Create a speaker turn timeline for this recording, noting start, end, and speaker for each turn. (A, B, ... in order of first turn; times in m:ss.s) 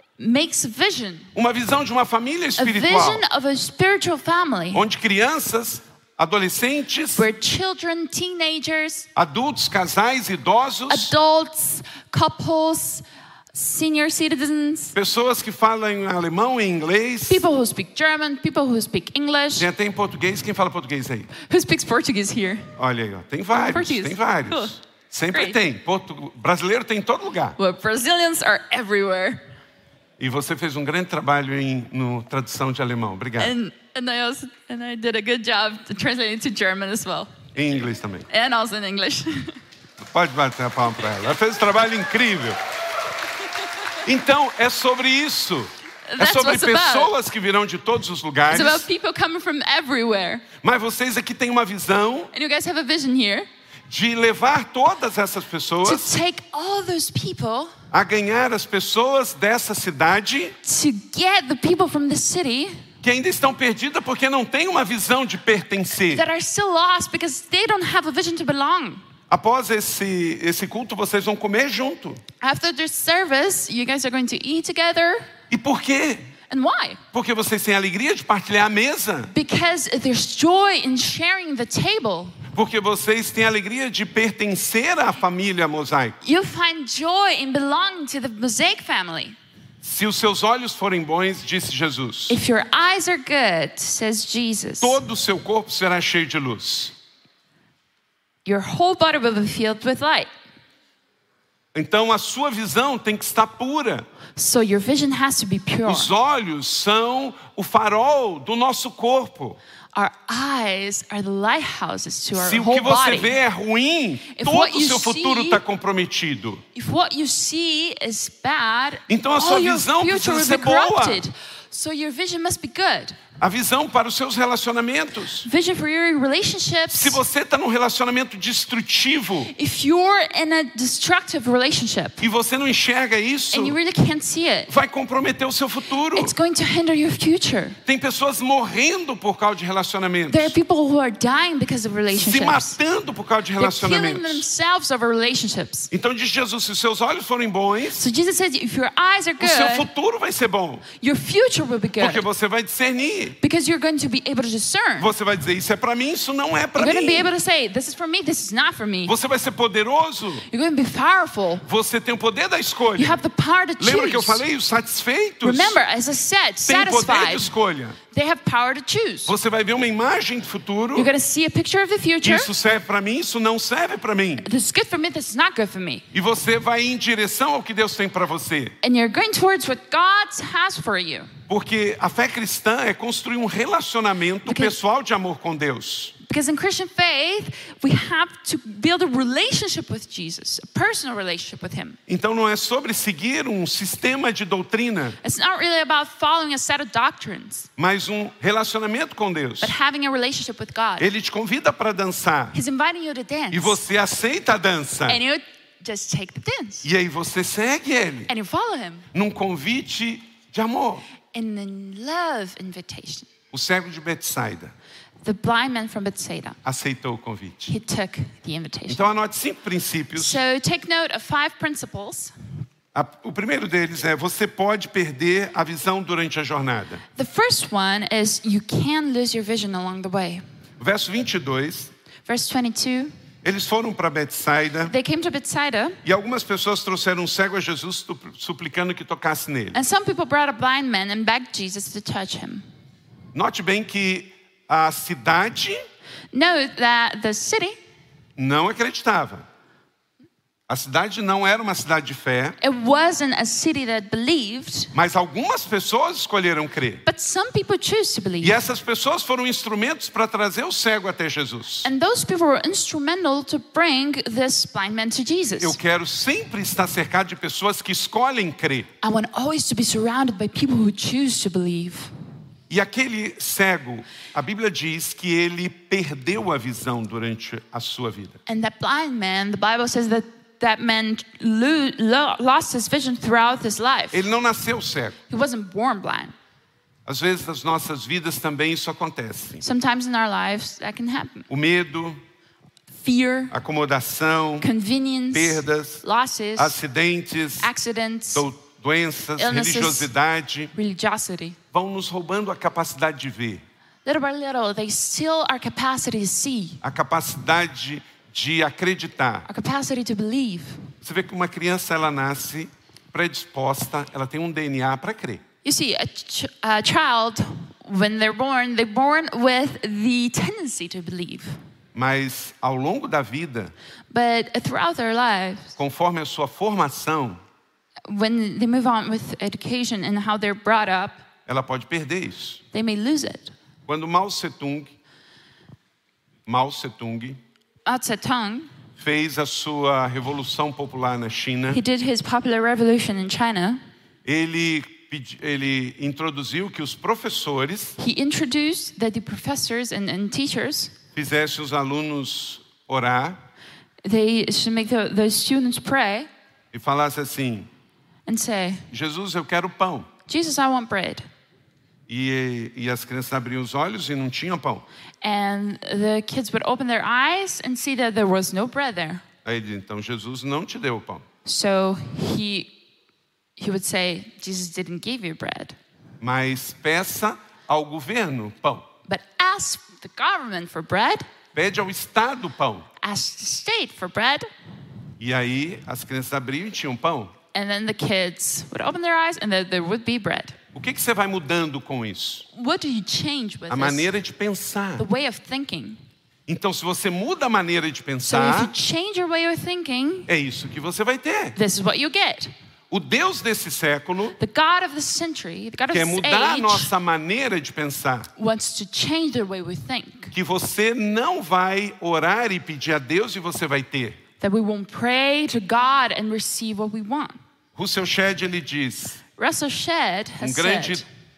0:00.2-0:01.3 A
0:01.3-0:03.2 B
0:02.6-0:04.8 A
0:04.7-0:07.3 B
0:07.2-0:09.1 A
0:09.2-0:11.1 B
0:10.9-0:14.9 A
0:14.9-0:17.4 B
0:17.3-0:19.7 A
0:19.6-0:21.3 B
0:21.4-0:22.7 A
0:22.8-0:27.6 B
0:23.5-0:24.7 A
0:27.6-0:29.4 A
0:30.2-0:33.5 B
0:33.4-0:37.3 A
0:37.5-0:38.3 B
0:38.3-0:39.6 A
0:40.0-0:42.6 B
0:44.0-0:48.8 B
0:46.1-0:47.1 A
0:48.5-0:50.4 A
0:50.6-0:52.3 B
0:52.3-0:53.5 A
0:53.9-0:56.1 B
0:55.8-0:57.7 A
0:57.9-1:00.6 B
1:00.6-1:02.8 A
1:03.0-1:06.2 B
1:06.1-1:09.0 A
1:09.3-1:12.2 B
1:12.4-1:15.3 A
1:15.5-1:16.2 B
1:16.5-1:17.0 A
1:17.1-1:19.3 B
1:19.3-1:22.4 A
1:22.5-1:26.2 B
1:26.2-1:29.4 A
1:29.8-1:32.4 B
1:32.3-1:35.0 A
1:34.8-1:36.9 B
1:38.4-1:40.3 A
1:41.7-1:44.0 B
1:44.4-1:46.1 A
1:45.8-1:49.6 B
1:49.9-1:53.3 A
1:52.3-1:56.6 B
1:54.3-1:55.6 A
1:56.7-2:03.2 A
1:59.1-2:01.2 B
2:03.4-2:05.5 B
2:05.4-2:07.2 A
2:06.9-2:09.5 B
2:09.5-2:12.2 A
2:12.2-2:13.8 B
2:13.5-2:14.7 A
2:14.7-2:16.3 B
2:16.1-2:17.8 A
2:17.8-2:20.5 B
2:20.3-2:22.8 A
2:22.1-2:24.4 B
2:23.6-2:25.9 A
2:25.9-2:28.0 B
2:27.9-2:29.9 A
2:29.4-2:30.8 B
2:31.0-2:32.2 A
2:32.0-2:33.4 B
2:33.4-2:35.1 A
2:35.0-2:37.3 B
2:36.8-2:39.1 A
2:39.0-2:40.4 B
2:40.5-2:41.6 A
2:41.6-2:43.2 B
2:43.0-2:44.4 A
2:43.8-2:45.8 B
2:45.4-2:47.5 A
2:46.6-2:48.0 B
2:48.1-2:49.3 A
2:49.2-2:51.1 B
2:50.9-2:52.5 A
2:52.2-2:54.5 B
2:54.4-2:56.0 A
2:56.1-2:58.7 B
2:58.8-3:01.3 A
3:01.5-3:06.1 B
3:04.4-3:04.7 A
3:06.2-3:12.0 A
3:12.1-3:15.2 B
3:15.2-3:17.7 A
3:17.8-3:19.7 B
3:19.6-3:21.1 A
3:21.0-3:22.6 B
3:22.5-3:23.8 A
3:23.5-3:25.2 B
3:25.1-3:26.9 A
3:26.8-3:28.3 B
3:28.3-3:29.0 A
3:29.1-3:31.0 B
3:31.3-3:33.3 A
3:33.5-3:34.7 B
3:35.2-3:36.6 A
3:36.6-3:37.7 B
3:37.7-3:39.1 A
3:38.9-3:40.4 B
3:40.1-3:42.3 A
3:42.9-3:47.0 B
3:47.2-3:50.4 A
3:50.8-3:51.9 B
3:52.2-3:53.1 A
3:53.4-3:54.9 B
3:54.8-3:56.0 A
3:56.0-3:59.8 B
3:59.7-4:02.6 A
4:03.3-4:05.8 B
4:06.3-4:07.8 A
4:08.4-4:09.4 B
4:10.7-4:12.6 B
4:12.6-4:14.9 A
4:14.9-4:17.0 B
4:17.0-4:18.6 A
4:18.4-4:21.9 B
4:21.8-4:25.8 A
4:25.6-4:28.9 B
4:29.0-4:32.1 A
4:32.7-4:38.4 B
4:38.4-4:44.2 A
4:44.1-4:45.2 B
4:45.3-4:46.3 A
4:47.0-4:49.6 B
4:49.6-4:51.5 A
4:51.5-4:52.2 B
4:52.9-4:53.5 A
4:53.5-4:54.7 B
4:54.6-4:56.8 A
4:55.3-4:56.0 B
4:56.6-4:57.7 B
4:57.6-4:58.4 A
4:58.3-5:00.7 B
4:59.4-5:00.1 A
5:00.7-5:01.6 A
5:01.7-5:03.6 B
5:04.0-5:06.8 A
5:06.8-5:09.5 B
5:09.5-5:10.8 A
5:11.0-5:15.4 B
5:15.6-5:21.6 A
5:21.9-5:23.7 B
5:24.1-5:25.8 A
5:25.8-5:27.4 B
5:28.1-5:31.2 A
5:31.5-5:32.6 B
5:32.7-5:33.5 A
5:33.9-5:34.9 B
5:36.4-5:37.4 B
5:37.8-5:38.7 A
5:39.0-5:41.8 B
5:41.7-5:43.8 A
5:44.2-5:48.0 B
5:48.0-5:50.9 A
5:51.1-5:53.4 B
5:54.0-5:56.3 A
5:56.7-5:57.7 B
5:58.3-5:58.8 A
5:58.9-6:00.1 B
6:00.3-6:01.2 A
6:02.1-6:04.8 B
6:05.2-6:09.2 A
6:09.4-6:11.2 B
6:11.4-6:12.7 A
6:13.6-6:15.8 A
6:16.2-6:18.9 B
6:19.1-6:21.2 A
6:21.5-6:22.9 B
6:23.0-6:24.5 A
6:25.2-6:27.3 B
6:27.5-6:30.6 A
6:30.7-6:32.4 B
6:32.5-6:34.1 A
6:33.7-6:35.0 B
6:35.0-6:36.0 A
6:36.5-6:38.7 B
6:38.2-6:40.3 A
6:40.3-6:41.6 B
6:41.6-6:42.5 A
6:42.9-6:44.4 B
6:44.4-6:46.9 A
6:45.9-6:48.3 B
6:48.4-6:50.3 A
6:50.3-6:54.2 B
6:54.4-6:57.4 A
6:57.8-6:59.2 B
6:59.4-7:01.0 A
7:00.4-7:01.0 B